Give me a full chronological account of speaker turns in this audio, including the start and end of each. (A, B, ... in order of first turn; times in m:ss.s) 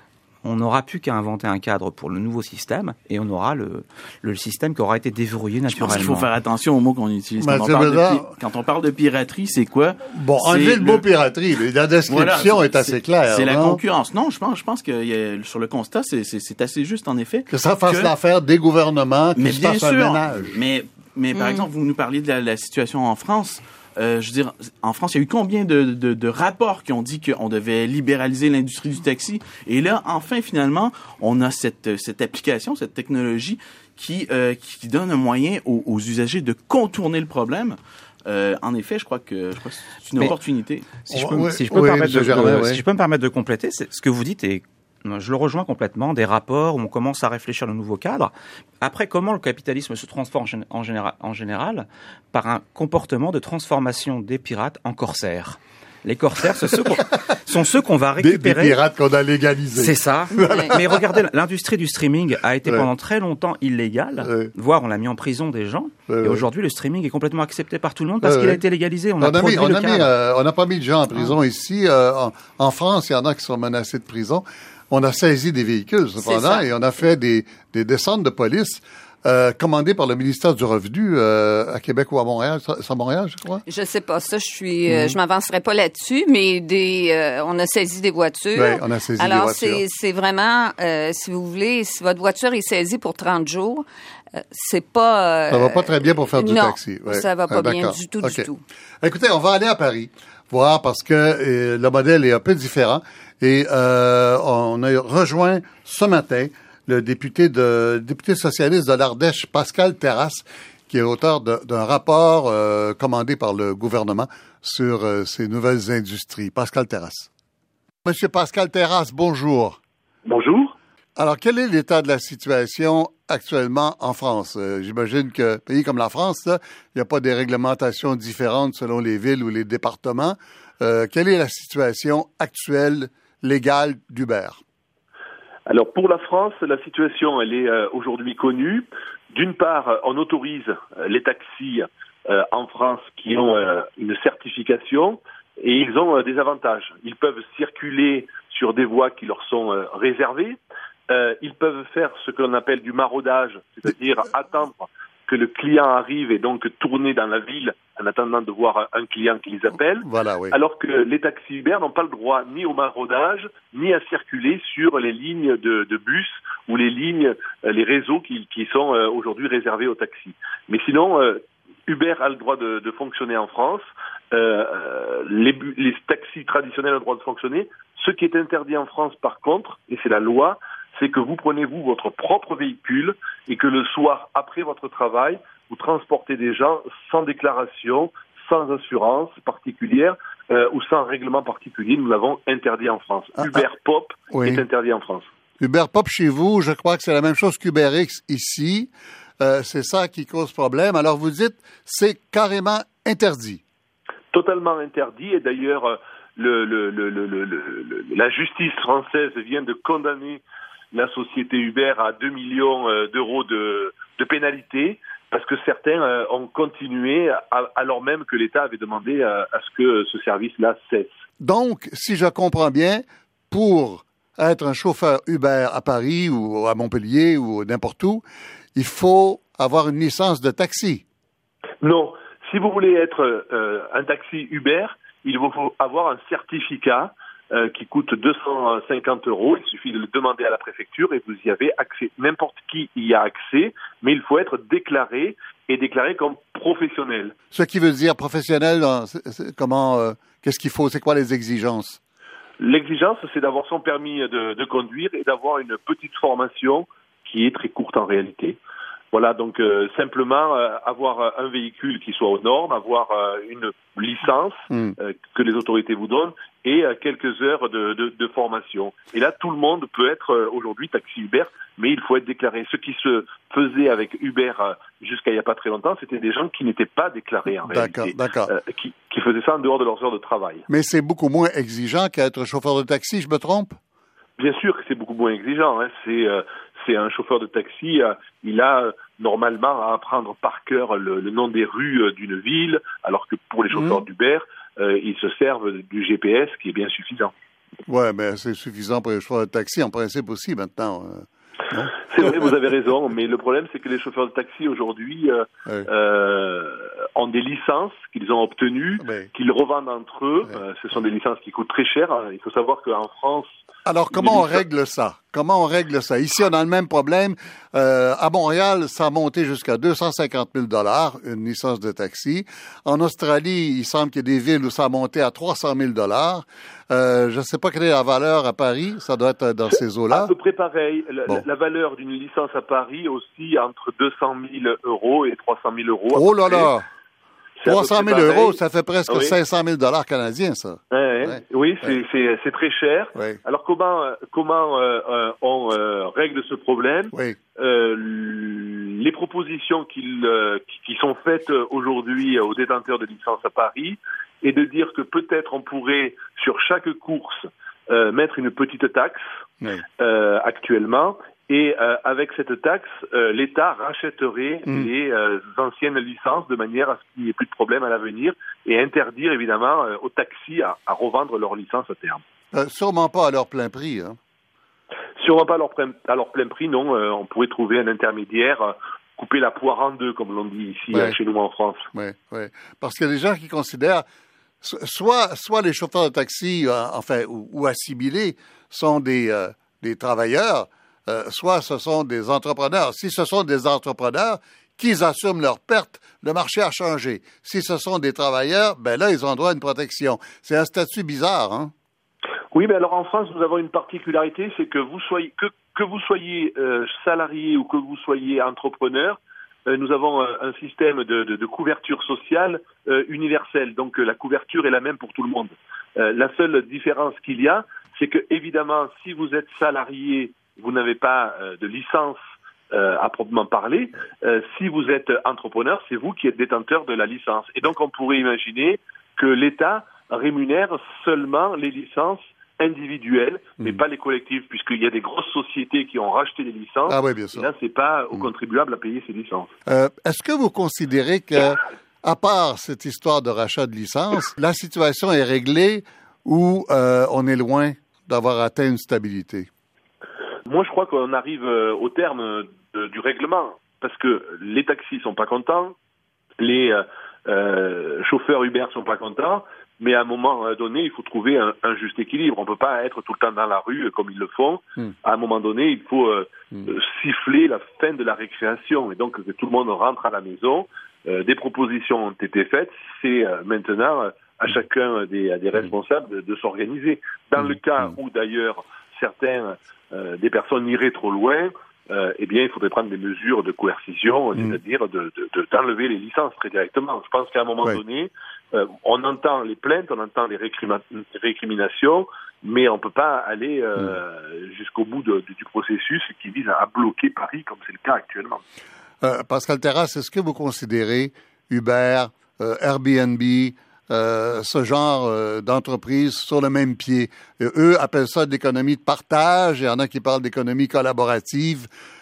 0:00.4-0:06.3 A
0:05.7-0:11.0 B
0:07.4-0:08.3 C
0:10.1-0:13.8 C
0:12.1-0:18.1 B
0:17.5-0:20.5 C
0:19.4-0:40.8 B
0:21.3-0:21.6 D
0:41.0-0:58.8 A
0:41.1-0:42.8 C
0:58.2-1:01.2 C
0:59.8-1:10.1 A
1:00.3-1:00.8 D
1:04.2-1:04.5 C
1:06.1-1:06.4 C
1:08.2-1:08.6 C
1:09.2-1:23.6 C
1:16.2-1:16.6 D
1:23.7-1:33.8 D
1:24.9-1:25.2 C
1:28.5-1:29.8 C
1:34.4-1:38.6 D
1:35.5-1:38.5 C
1:39.0-1:57.3 C
1:58.0-1:59.8 C
2:00.2-2:00.7 E
2:01.2-2:14.6 C
2:15.7-3:15.3 E
2:40.0-2:40.6 C
3:13.4-3:13.6 C
3:14.3-3:14.6 C
3:15.6-3:23.6 C
3:24.3-3:30.4 E
3:30.9-3:41.2 E
3:41.4-3:48.2 C
3:48.7-3:51.0 C
3:51.8-4:07.3 E
4:07.5-4:12.0 C
4:12.6-4:18.6 E
4:19.1-4:40.6 E
4:37.6-4:38.5 C
4:40.7-4:43.8 C
4:44.4-4:57.3 E
4:53.7-4:54.0 C
4:57.9-5:02.5 C
5:02.1-5:13.6 E
5:09.0-5:09.3 C
5:13.8-5:30.3 C
5:14.2-5:14.6 E
5:30.1-5:36.7 E
5:36.1-5:36.9 C
5:37.6-5:39.4 E
5:37.6-5:42.0 C
5:40.9-5:59.2 E
5:43.1-5:43.4 C
5:47.1-5:47.4 C
6:00.0-6:12.2 E
6:12.5-6:14.2 C
6:15.2-6:21.8 E
6:21.9-6:24.0 C
6:24.6-6:41.7 C
6:42.5-7:02.2 E
7:02.7-7:19.5 E
7:16.9-7:17.5 C
7:19.7-7:29.5 C
7:30.5-7:35.7 E
7:36.4-8:18.4 E
8:19.0-8:31.7 C